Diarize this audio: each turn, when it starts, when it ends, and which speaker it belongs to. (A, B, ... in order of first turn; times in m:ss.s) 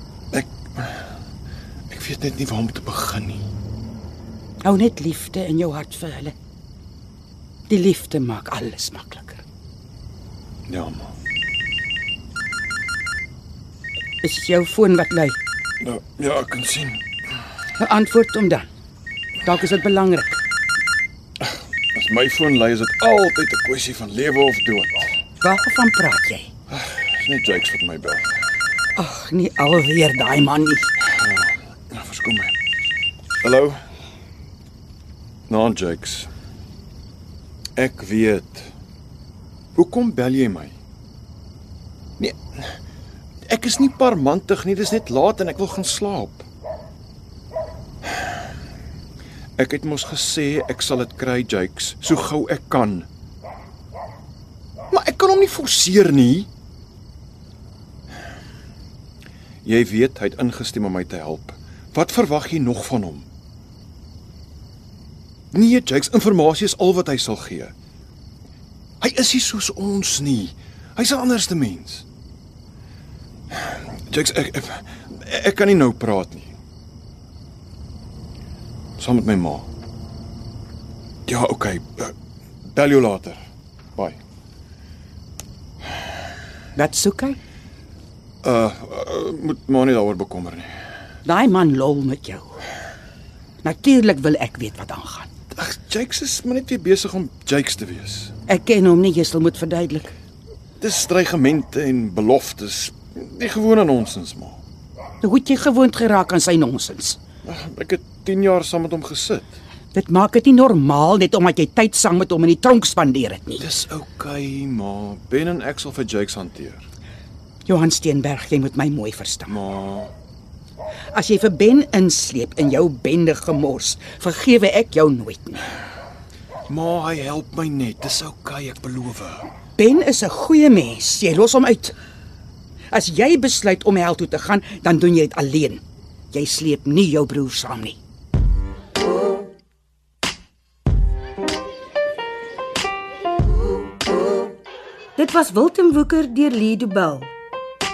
0:00.3-0:01.1 A
0:01.9-0:03.4 A
0:04.6-0:06.4 B
0:07.7-0:09.4 B
0:10.7-0:11.1 A
0:14.2-0:15.4 B
0:15.8-0:17.0 A
0:17.8-0:18.7 B
0:19.4-0:20.4 B
0:21.4-0:25.1 A
0:25.4-0:26.5 B
0:26.7-0:28.3 A
0:29.0-0:30.9 B
0:31.2-0:32.6 A
0:33.4-0:33.8 A
0:35.5-0:36.3 A
0:37.8-0:38.7 A
0:39.8-0:40.8 A
0:42.2-0:42.8 A
0:43.5-0:46.5 A
0:49.6-0:53.1 A
0:54.9-0:56.5 A
0:59.6-1:03.3 A
1:05.5-1:07.7 A
1:09.0-1:12.0 A
1:13.5-1:16.5 A
1:19.0-1:19.7 A
1:21.3-1:22.1 A
1:22.7-1:23.4 A
1:26.8-1:27.4 B
1:28.4-1:30.7 A
1:31.2-1:32.5 B
1:33.6-1:35.3 B
1:35.5-1:38.4 A
1:38.5-1:40.2 B
1:40.8-1:44.6 A
1:45.2-1:47.2 B
1:47.4-1:49.6 A
1:49.9-1:53.7 B
1:53.6-1:56.8 A
1:57.7-1:59.5 B
1:59.5-2:00.1 A
2:01.1-2:05.6 B
2:06.7-2:09.5 A
2:09.8-2:11.9 B
2:12.9-2:18.0 B
2:25.2-2:27.3 C